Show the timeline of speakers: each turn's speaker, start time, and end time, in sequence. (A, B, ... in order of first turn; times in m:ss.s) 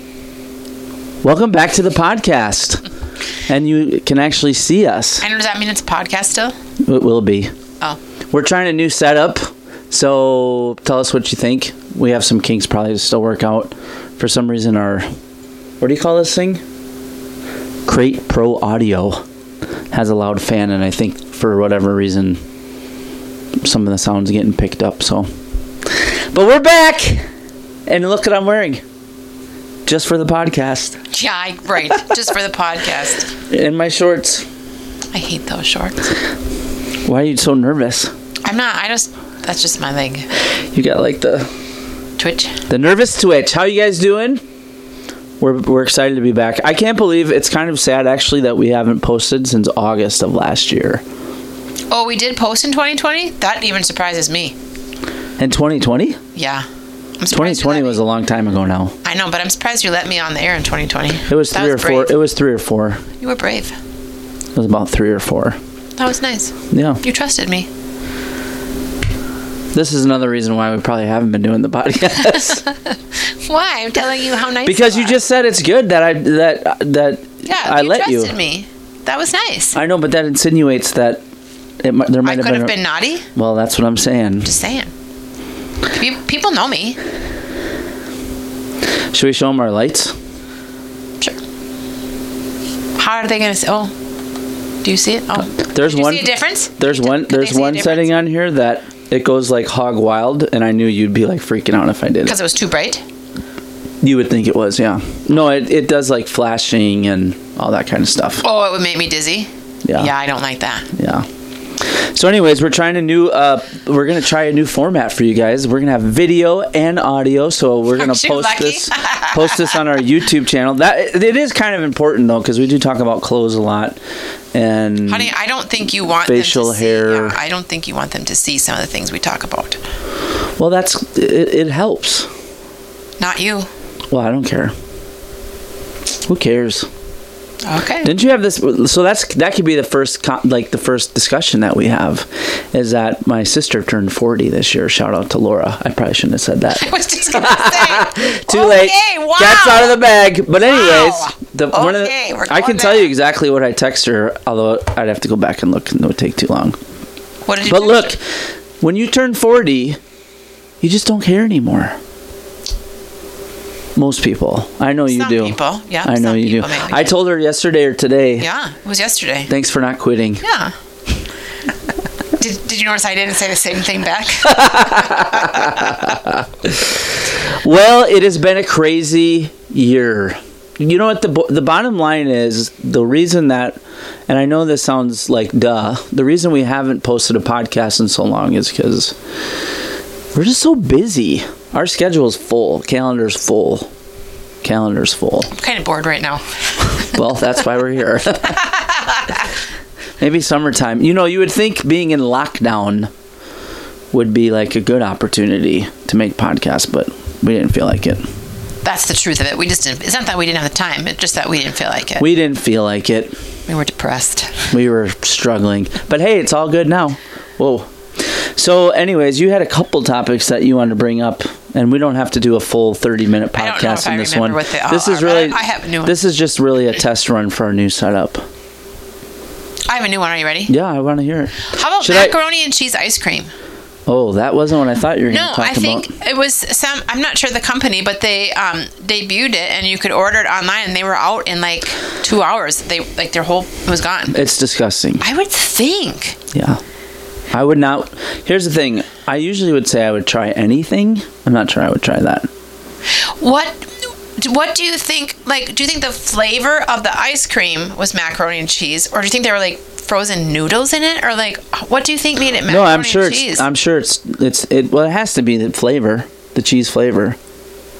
0:01.2-0:02.8 A
0:03.5-0:05.2 A
0:05.2-0:06.5 B
0:06.8-0:07.5 A
0:08.3-0:15.0 A
0:15.8-0:16.6 A
0:17.9-0:19.2 A
0:19.9-0:22.4 A
0:23.6-0:25.3 A
0:25.9-0:27.2 A
0:27.9-0:28.8 A
0:29.9-0:31.0 A
0:31.1-0:33.3 B
0:33.5-0:34.4 A
0:35.1-0:36.0 B
0:37.0-0:38.1 A
0:38.4-0:40.3 B
0:40.7-0:41.5 A
0:42.2-0:42.6 B
0:42.7-0:44.4 A
0:45.4-0:51.0 A
0:51.9-0:54.5 B
0:55.4-0:56.2 A
0:56.3-0:56.6 B
0:57.2-0:58.0 B
0:57.3-0:58.9 A
0:59.0-1:02.2 B
1:01.3-1:03.0 A
1:03.2-1:03.7 B
1:04.5-1:05.6 A
1:06.0-1:07.7 B
1:06.7-1:07.0 A
1:09.7-1:12.6 A
1:12.6-1:15.2 B
1:14.6-1:18.3 A
1:17.4-1:19.8 B
1:19.7-1:21.2 A
1:21.8-1:22.8 A
1:22.2-1:23.2 B
1:23.3-1:24.5 A
1:24.4-1:24.9 B
1:25.9-1:27.0 B
1:29.1-1:30.1 A
1:33.0-1:33.9 B
1:34.8-1:38.2 B
1:35.5-1:42.4 A
1:42.2-1:43.0 B
1:44.0-1:48.4 A
1:48.4-1:50.9 B
1:49.8-1:50.1 A
1:50.9-1:51.2 A
1:51.8-2:04.0 A
1:57.9-1:59.8 B
2:04.5-2:05.3 A
2:05.0-2:09.8 B
2:06.2-2:07.4 A
2:10.6-2:12.3 A
2:13.2-2:13.7 B
2:14.1-2:14.7 A
2:16.3-2:16.9 A
2:17.6-2:18.1 B
2:18.0-2:36.8 A
2:26.8-2:30.0 B
2:30.6-2:33.1 B
2:37.4-2:38.1 B
2:37.6-2:38.3 A
2:38.8-2:40.0 A
2:40.8-2:42.0 A
2:44.0-2:48.5 A
2:45.1-2:47.1 B
2:48.4-2:49.5 B
2:49.5-2:50.4 A
2:50.4-2:50.7 B
2:52.4-2:56.1 B
2:54.4-3:09.2 A
3:10.3-3:13.9 A
3:14.6-3:15.5 A
3:15.5-3:17.1 B
3:16.9-3:18.8 A
3:18.6-3:19.4 B
3:20.2-3:23.1 A
3:24.1-3:28.2 A
3:28.8-3:32.2 B
3:32.2-3:33.3 A
3:33.7-3:34.7 B
3:34.7-3:48.4 A
3:43.5-3:46.1 B
3:49.9-3:50.7 B
3:50.7-3:52.3 A
3:51.6-3:53.5 B
3:54.1-3:56.1 A
3:55.2-4:04.3 B
4:04.3-4:05.2 A
4:05.2-4:06.4 B
4:06.5-4:06.8 A
4:07.5-4:12.5 A
4:13.1-4:23.6 B
4:22.7-4:27.4 A